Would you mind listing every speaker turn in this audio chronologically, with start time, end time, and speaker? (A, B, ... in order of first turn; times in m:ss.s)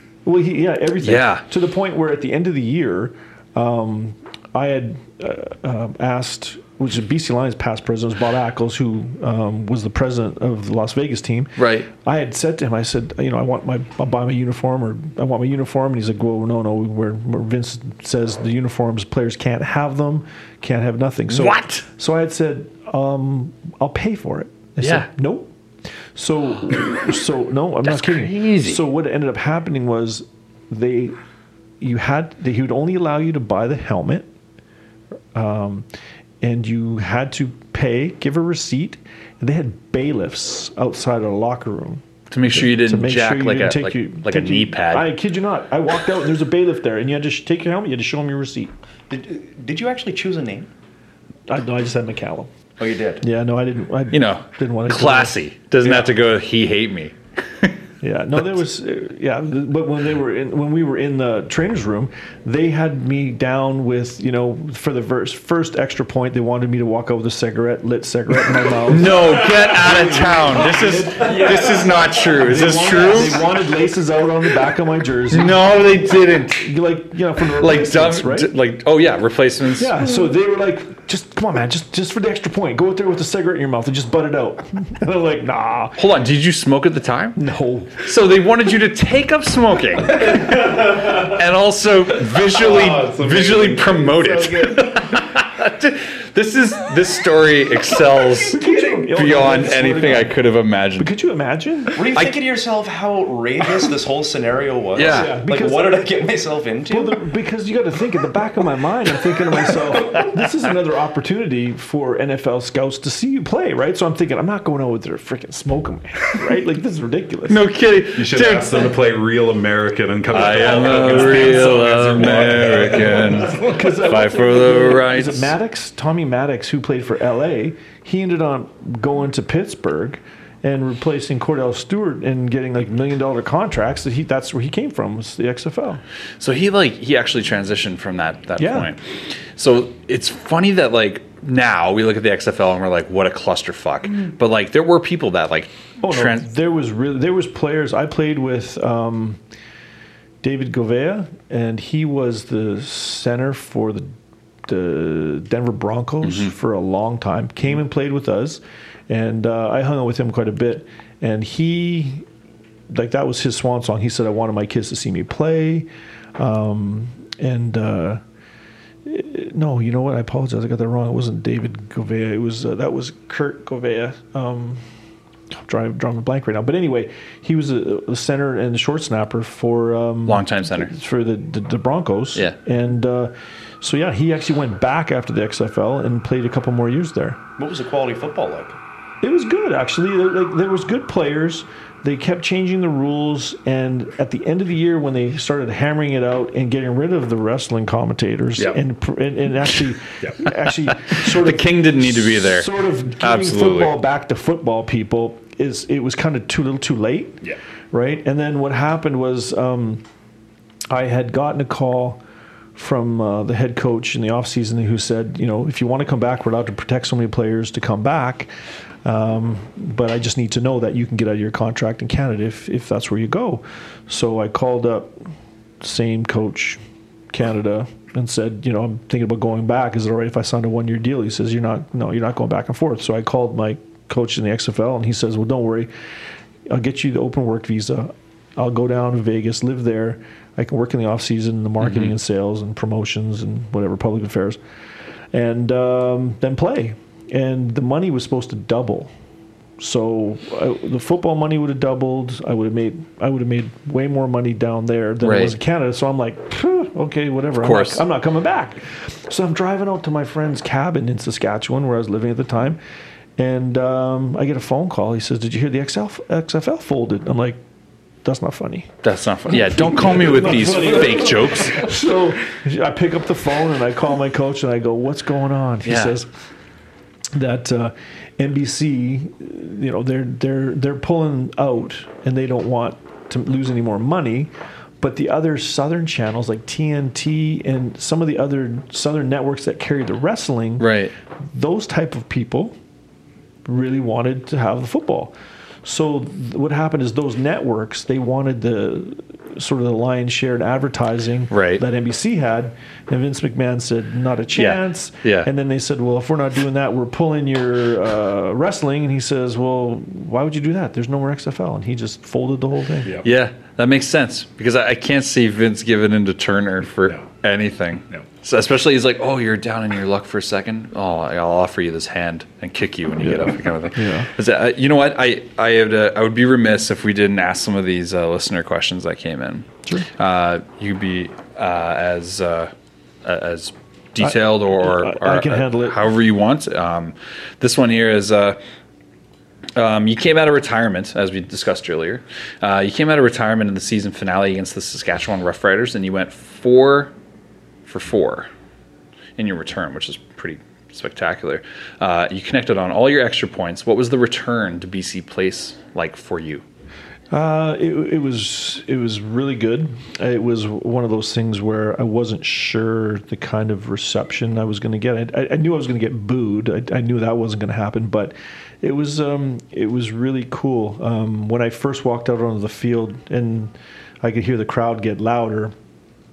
0:00.2-0:25.5 A
0:01.0-0:01.4 B
0:11.6-0:11.9 B
0:21.3-0:21.8 B
0:24.8-0:25.1 B
0:26.1-0:31.2 A
0:27.8-0:28.8 B
0:31.8-0:34.3 A
0:35.3-0:35.9 A
0:36.4-0:48.7 A
0:42.3-0:45.1 B
0:49.1-0:50.7 C
0:51.5-0:52.5 A
0:52.8-0:53.2 C
0:53.2-0:55.4 A
0:54.1-0:57.8 B
0:55.8-0:56.1 C
0:58.0-1:09.2 A
1:08.8-1:13.5 B
1:09.8-1:10.6 D
1:09.9-1:15.7 A
1:11.2-1:12.1 C
1:15.3-1:16.8 B
1:16.5-1:18.5 A
1:17.6-1:20.0 B
1:19.8-1:26.0 A
1:26.0-1:27.4 B
1:27.4-1:28.1 A
1:28.0-1:41.1 B
1:32.4-1:35.2 D
1:38.5-1:40.3 A
1:41.0-1:42.0 A
1:42.0-1:47.2 C
1:45.0-1:45.3 B
1:45.0-1:46.1 A
1:46.9-1:57.7 A
1:49.7-1:50.3 C
1:57.5-1:58.9 B
1:58.2-2:03.7 D
2:00.3-2:05.5 B
2:03.1-2:16.0 A
2:16.4-2:26.5 B
2:18.6-2:18.9 A
2:26.0-2:29.4 A
2:30.4-2:34.1 A
2:34.7-2:42.3 A
2:36.2-2:36.5 B
2:42.9-2:48.2 A
2:49.0-2:54.9 A
2:55.5-3:07.4 A
3:00.3-3:00.9 B
3:07.6-3:08.8 C
3:09.2-3:30.0 A
3:21.0-3:23.9 B
3:30.9-3:32.2 A
3:32.8-3:38.5 A
3:39.0-3:46.8 A
3:47.3-3:55.9 A
3:56.7-4:04.6 A
4:01.8-4:02.1 B
4:05.3-4:09.1 A
4:09.8-4:22.8 A
4:15.2-4:15.6 B
4:17.6-4:18.0 B
4:23.4-4:27.6 A
4:28.2-4:36.3 A
4:29.0-4:31.9 B
4:35.8-4:36.2 B
4:37.3-4:52.8 A
4:50.8-4:51.1 B
4:53.6-5:13.2 A
5:01.5-5:01.8 B
5:04.6-5:05.5 B
5:13.2-5:32.7 B
5:23.2-5:24.3 A
5:33.2-5:38.6 B
5:34.2-5:36.1 A
5:39.8-5:47.1 B
5:47.9-5:48.5 B
5:49.4-5:56.6 B
5:57.3-6:15.7 A